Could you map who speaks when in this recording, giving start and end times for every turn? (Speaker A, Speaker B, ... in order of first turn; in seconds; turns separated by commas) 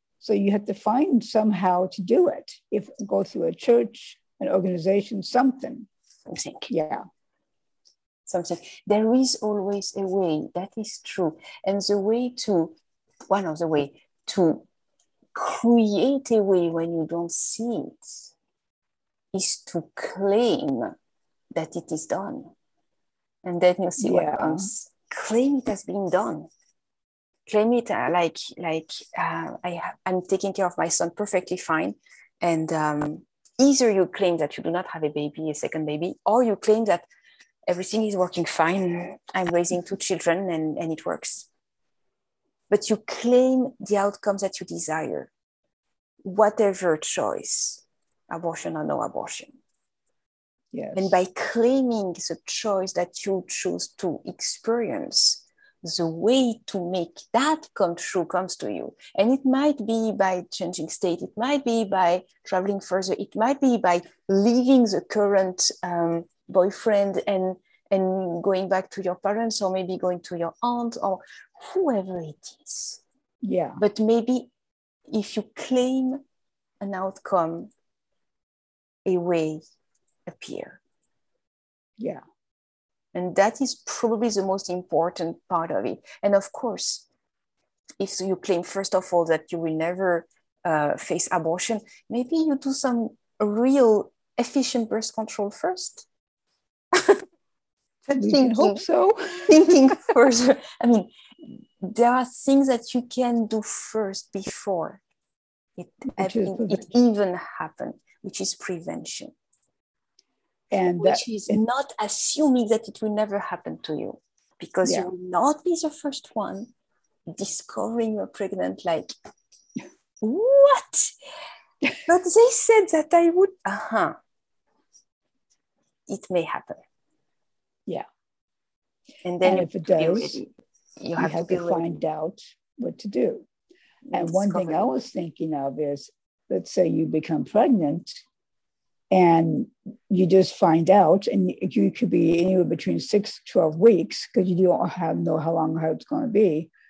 Speaker A: 0.2-5.9, Speaker B: 6.3-6.7, Speaker A: 6.7-7.0, Speaker B: 8.2-12.8, Speaker B: 13.3-14.6, Speaker B: 15.3-18.3, Speaker B: 19.3-20.9, Speaker B: 21.6-22.5, Speaker B: 23.4-26.5, Speaker A: 24.0-24.7, Speaker B: 27.5-37.1, Speaker B: 37.7-41.5, Speaker B: 42.7-45.3, Speaker B: 46.2-49.6, Speaker A: 50.7-51.2, Speaker B: 50.9-73.0, Speaker A: 73.4-73.8, Speaker B: 73.8-74.5, Speaker B: 75.1-76.2, Speaker B: 76.8-77.7, Speaker B: 79.0-79.6, Speaker B: 80.3-80.8, Speaker B: 83.1-87.0, Speaker B: 88.0-96.1, Speaker B: 96.9-97.2, Speaker B: 98.0-98.8, Speaker A: 98.2-100.0, Speaker B: 99.5-105.0, Speaker B: 105.8-109.3, Speaker A: 106.1-106.9, Speaker A: 110.7-111.6, Speaker B: 111.0-116.7, Speaker A: 114.8-115.1, Speaker B: 117.3-119.1, Speaker B: 120.2-121.1, Speaker B: 122.0-124.2, Speaker B: 126.1-126.8, Speaker B: 129.2-132.0, Speaker A: 129.4-130.4, Speaker A: 131.2-133.4, Speaker B: 134.1-135.0, Speaker A: 134.1-138.2, Speaker A: 139.1-146.7